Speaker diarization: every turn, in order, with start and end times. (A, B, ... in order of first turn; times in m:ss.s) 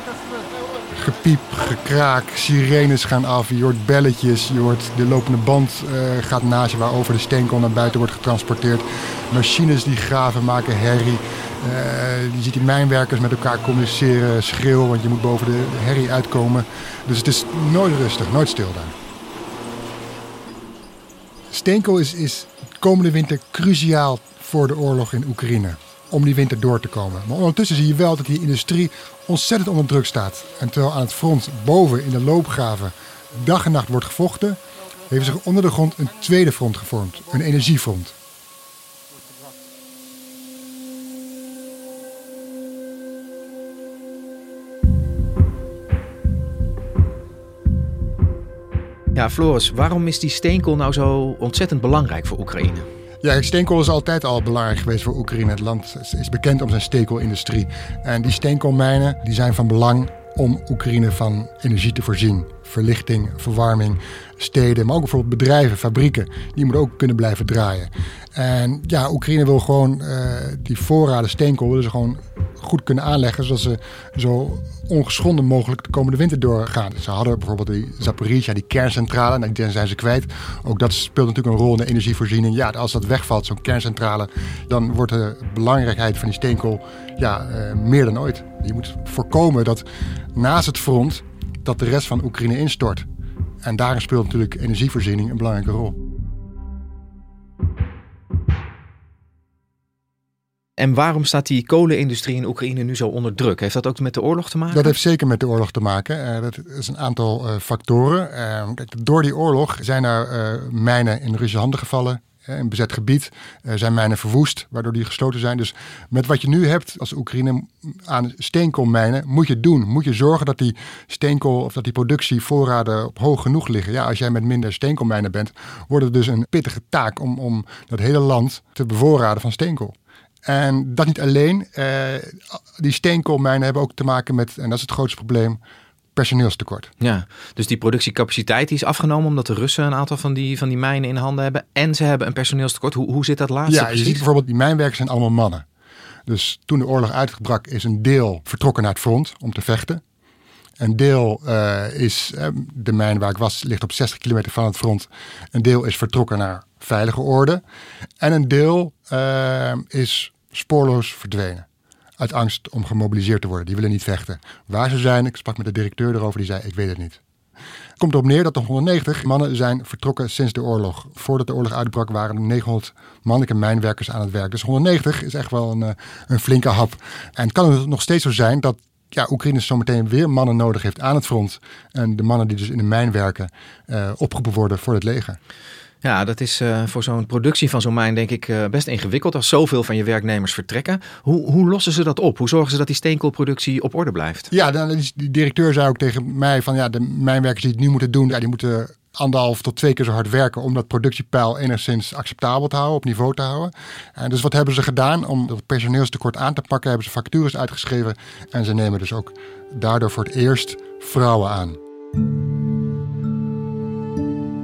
0:00.9-0:18.9 A
0:21.5-0:38.1 A
0:49.1-0:52.9 B
0:53.2-1:29.8 A
1:30.4-1:33.0 A
1:33.6-1:36.0 A
1:40.8-1:44.9 B
1:44.7-2:15.6 A
2:16.2-2:16.9 A
2:17.0-2:24.2 B
2:23.7-2:25.6 A
2:26.3-2:30.0 A
2:30.8-2:37.6 A
2:38.2-2:41.6 A
2:42.2-2:47.2 A
2:48.0-3:05.4 A
3:06.0-3:14.5 B
3:14.5-3:31.8 A